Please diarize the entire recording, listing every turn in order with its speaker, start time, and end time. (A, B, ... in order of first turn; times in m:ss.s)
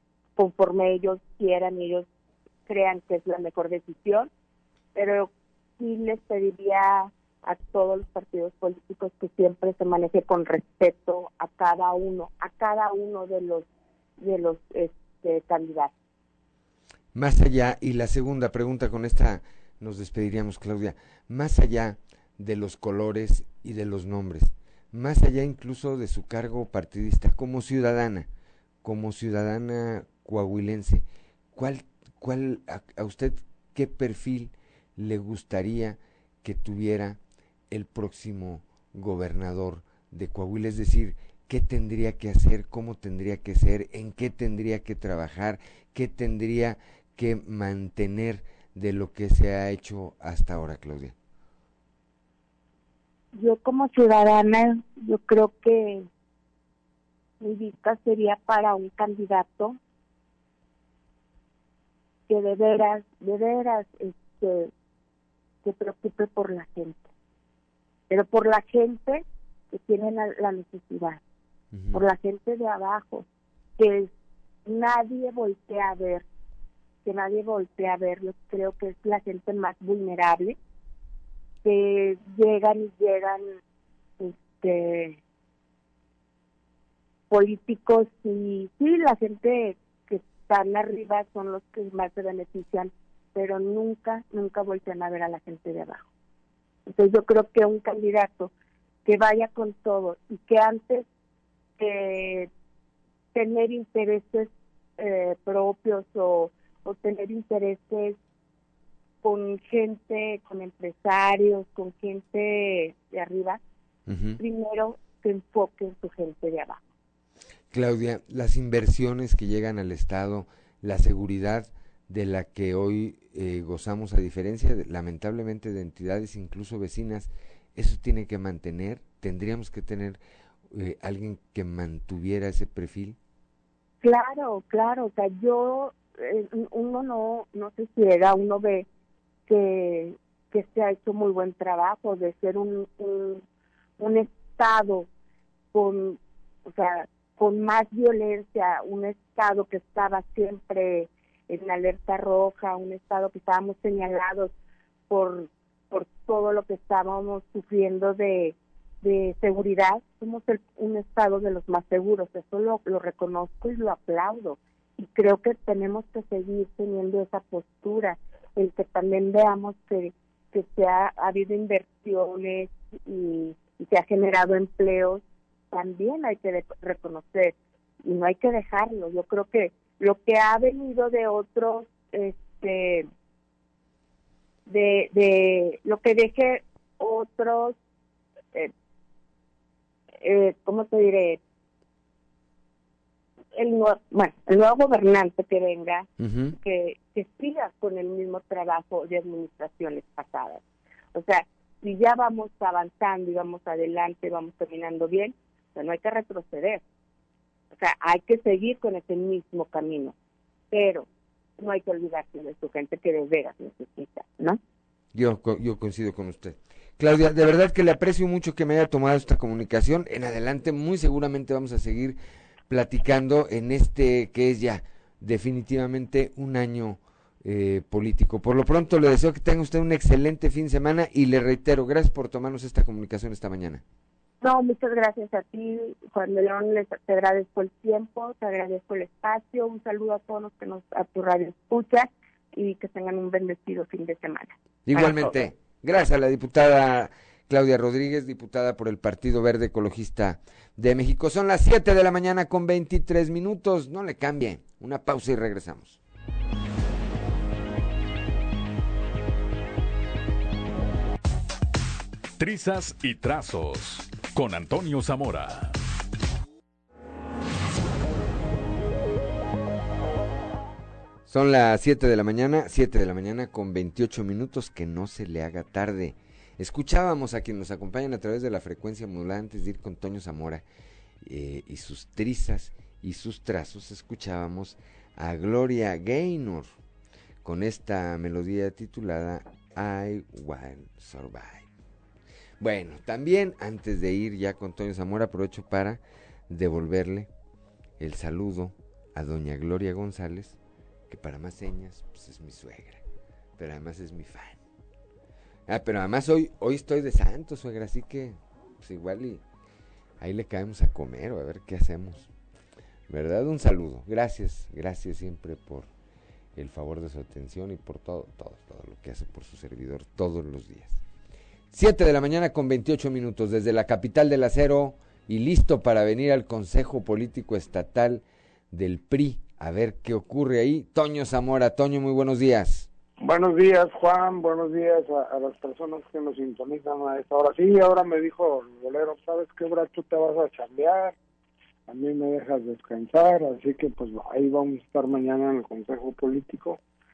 0:00.4-0:02.1 A
0:02.7-0:04.3 A
0:05.0-0:13.6 A
0:14.2-0:15.9 A
0:17.2-0:28.3 B
0:28.8-0:37.2 B
0:37.7-0:51.1 B
0:53.3-0:56.1 A
0:57.4-0:59.8 A
1:02.3-1:04.7 A
1:05.6-1:07.1 A
1:08.1-1:11.2 A
1:11.7-1:12.0 B
1:11.9-1:13.2 A
1:13.8-1:14.1 A
1:14.7-1:16.2 A
1:17.0-1:20.6 A
1:21.6-1:23.5 A
1:24.2-1:25.2 A
1:27.3-1:36.0 A
1:36.9-1:38.5 A
1:39.0-1:41.0 A
1:41.8-1:42.5 A
1:43.3-1:48.2 A
1:49.2-1:53.6 A
1:54.1-1:54.4 B
1:54.4-1:56.8 A
1:57.7-2:10.2 B
2:10.7-2:13.2 B
2:14.0-2:18.9 A
2:19.5-2:23.4 A
2:24.0-2:25.1 A
2:25.7-2:34.5 A
2:35.1-3:03.1 A
3:04.7-3:07.8 A
3:10.2-3:11.4 A
3:13.6-3:20.6 A
3:16.2-3:16.5 B
3:21.1-3:26.8 A
3:27.7-3:30.1 A
3:30.7-3:31.1 A
3:31.6-3:34.6 A
3:35.1-3:42.2 B
3:42.7-3:53.8 B
3:54.4-4:05.4 A
4:04.9-4:16.0 B
4:22.4-4:25.7 C
4:31.3-4:40.6 B
4:41.2-4:46.7 B
4:47.4-4:51.7 B
4:52.6-4:57.3 B
4:58.0-5:00.6 B
5:01.1-5:03.0 B
5:03.6-5:04.6 B
5:05.7-5:09.4 B
5:10.2-5:12.3 B
5:13.1-5:15.9 B
5:16.6-5:21.0 B
5:21.7-5:32.9 B
5:33.2-5:41.1 D
5:41.9-5:46.8 D